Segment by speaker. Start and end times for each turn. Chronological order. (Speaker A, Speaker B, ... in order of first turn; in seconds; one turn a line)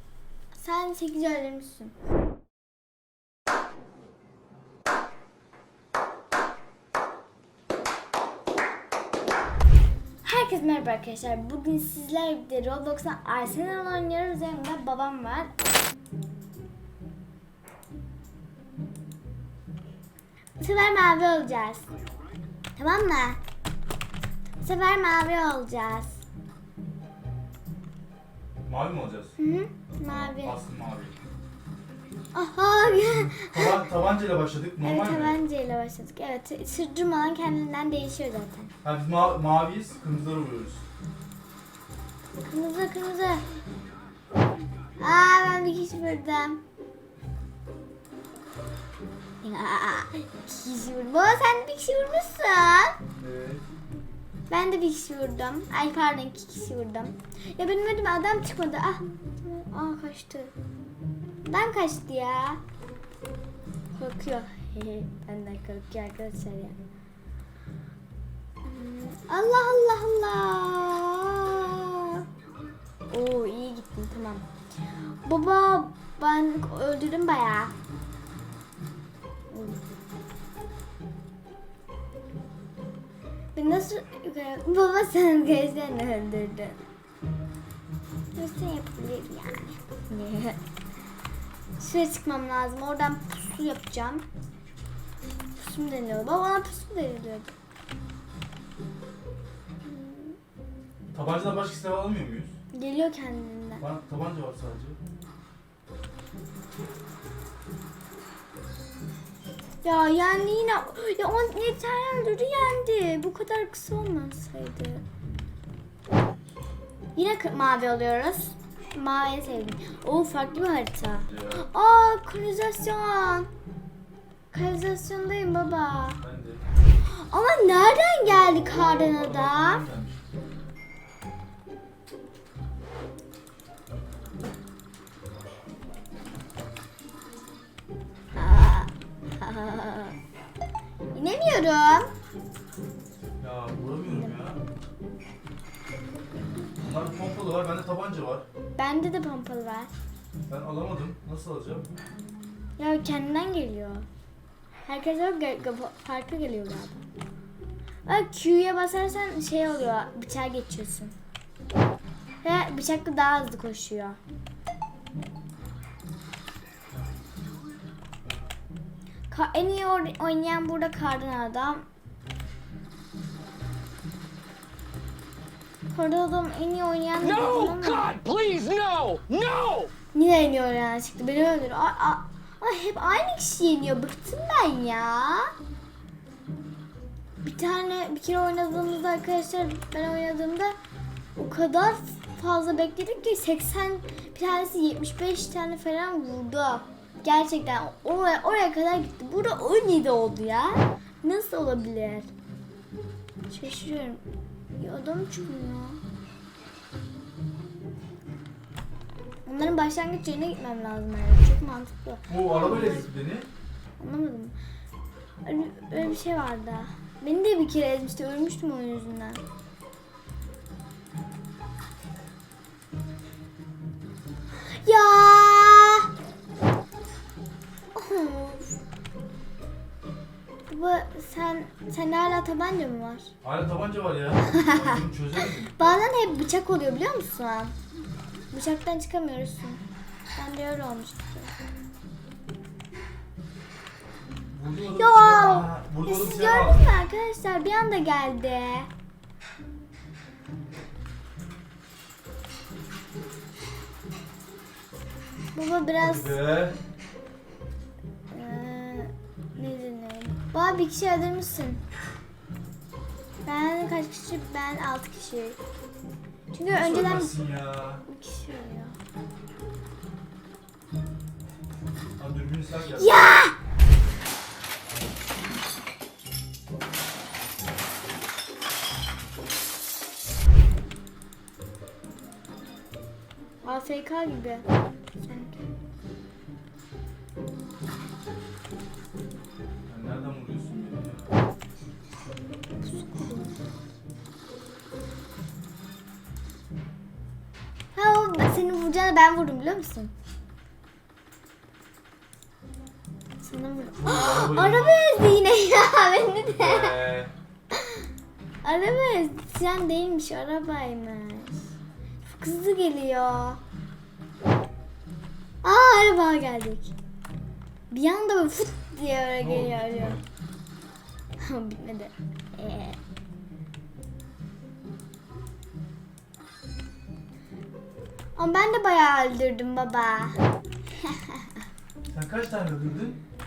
Speaker A: 0.6-1.9
Speaker A: 10.2-15.6
Speaker A: 20.6-21.9
Speaker A: 22.8-23.4
Speaker A: 24.6-26.2
Speaker B: 28.6-29.4
Speaker A: 29.4-30.6
Speaker B: 30.0-31.1
Speaker A: 32.3-33.8
Speaker B: 33.3-35.4
Speaker A: 34.8-38.7
Speaker B: 38.8-40.8
Speaker A: 42.4-43.5
Speaker A: 45.0-46.6
Speaker A: 49.4-53.0
Speaker B: 53.2-53.6
Speaker A: 54.5-60.5
Speaker A: 61.4-62.6
Speaker A: 63.9-66.8
Speaker A: 68.6-72.2
Speaker A: 73.1-74.5
Speaker A: 75.2-77.7
Speaker A: 79.5-79.8
Speaker A: 83.5-86.8
Speaker A: 88.3-90.6
Speaker A: 91.8-94.2
Speaker A: 95.5-97.5
Speaker A: 99.8-100.4
Speaker B: 101.1-102.5
Speaker A: 102.7-103.8
Speaker B: 103.8-105.0
Speaker A: 109.8-115.0
Speaker A: 117.1-123.5
Speaker B: 121.2-121.6
Speaker A: 124.5-126.2
Speaker B: 126.2-126.6
Speaker A: 127.0-129.8
Speaker B: 128.4-130.2
Speaker A: 138.3-140.2
Speaker A: 141.1-142.1
Speaker B: 143.4-144.6
Speaker A: 144.1-144.3
Speaker B: 146.8-148.4
Speaker A: 148.7-149.9
Speaker B: 150.5-151.9
Speaker A: 152.8-154.1
Speaker A: 154.8-157.1
Speaker A: 158.1-161.1
Speaker A: 162.4-164.2
Speaker A: 169.3-171.8
Speaker A: 175.9-178.2
Speaker C: 177.7-179.9
Speaker A: 180.1-185.5
Speaker A: 187.4-190.8
Speaker A: 191.3-202.3
Speaker A: 203.5-204.2
Speaker A: 204.8-206.0
Speaker A: 209.4-213.1
Speaker B: 212.3-213.5
Speaker A: 214.0-214.5
Speaker A: 215.4-219.4
Speaker A: 224.6-226.1
Speaker A: 227.9-228.8
Speaker A: 230.7-233.3
Speaker B: 233.4-235.8
Speaker A: 234.5-237.7
Speaker A: 238.5-239.8
Speaker A: 240.3-241.5
Speaker B: 244.5-246.8
Speaker A: 244.9-248.9
Speaker A: 255.5-256.4
Speaker B: 256.0-256.8
Speaker A: 258.3-261.8
Speaker A: 263.4-265.6
Speaker A: 266.5-267.4
Speaker B: 266.7-268.0
Speaker A: 268.0-268.9
Speaker B: 272.2-273.3
Speaker A: 272.9-273.6
Speaker A: 283.6-284.6
Speaker A: 285.2-285.6
Speaker B: 289.9-291.3
Speaker A: 292.8-293.5
Speaker A: 297.9-300.1
Speaker A: 303.4-307.0
Speaker B: 303.9-305.1
Speaker B: 306.2-307.3
Speaker A: 307.7-308.1
Speaker A: 308.6-311.7
Speaker A: 312.2-313.6
Speaker A: 315.6-316.9
Speaker A: 317.9-320.2
Speaker B: 319.4-320.2
Speaker A: 321.4-323.0
Speaker A: 328.4-330.4
Speaker A: 331.0-331.4
Speaker B: 332.1-333.2